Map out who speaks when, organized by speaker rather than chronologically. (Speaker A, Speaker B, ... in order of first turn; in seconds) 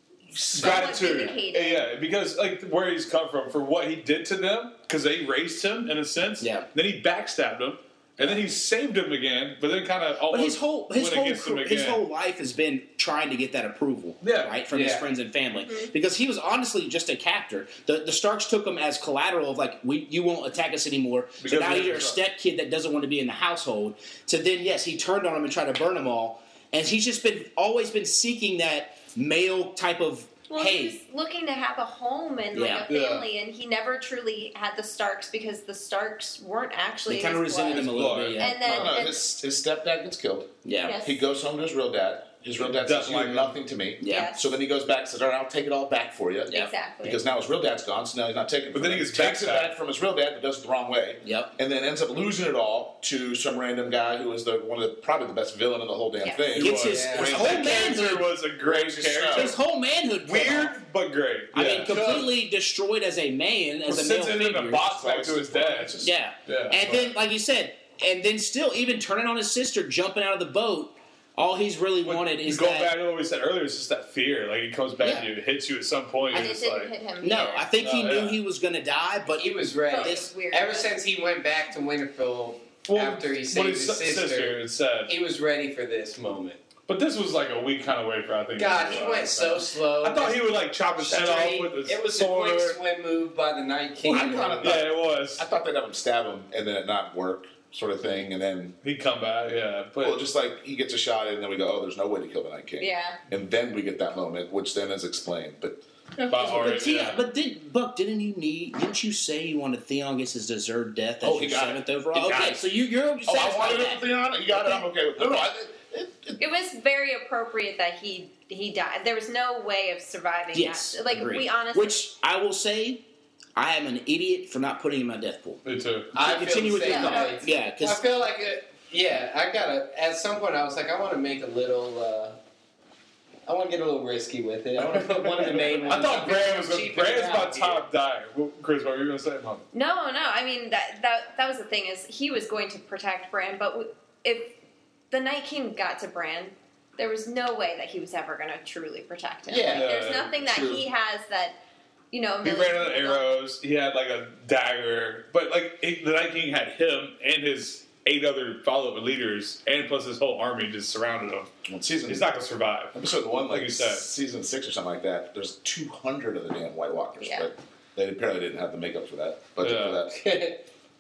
Speaker A: 0.5-1.9, 15.6-15.9, 30.5-39.3, 40.8-41.2, 44.0-44.4, 46.5-47.2, 56.2-56.6, 76.3-77.7, 79.8-81.0, 102.8-103.2, 116.4-122.0, 126.8-127.5, 139.7-144.6, 145.1-151.6, 152.1-153.3, 167.2-167.5
Speaker B: 0.5-12.0, 14.2-14.6, 21.4-22.2, 32.9-33.3, 37.7-38.7, 42.6-43.5, 48.7-49.7, 56.5-59.6, 60.2-62.3, 63.8-67.1, 72.0-76.9, 77.8-78.4, 82.9-85.1, 86.9-92.8, 94.1-95.4, 98.8-100.2, 106.3-107.2, 125.6-126.1, 135.8-139.6, 149.7-150.8, 152.4-161.5, 162.1-164.0, 169.6-170.0
Speaker C: 6.4-6.7, 10.3-31.0, 32.5-32.9, 37.0-38.9, 40.6-41.0, 44.0-44.3, 51.2-51.5, 56.5-58.3, 59.3-60.7, 61.5-64.8, 66.0-72.9, 75.0-75.3, 77.2-80.3, 106.3-114.8, 120.5-123.0, 123.5-125.6, 126.1-128.0
Speaker D: 14.7-15.0, 56.9-57.3, 79.3-86.6, 88.6-94.8, 126.1-132.4, 133.4-137.8, 149.5-149.9, 170.1-170.6
Speaker E: 38.6-58.1, 58.6-59.5, 64.8-66.1, 94.0-98.8, 100.0-106.7, 111.2-112.7, 113.2-116.4, 134.8-135.9, 161.6-162.3, 162.9-170.2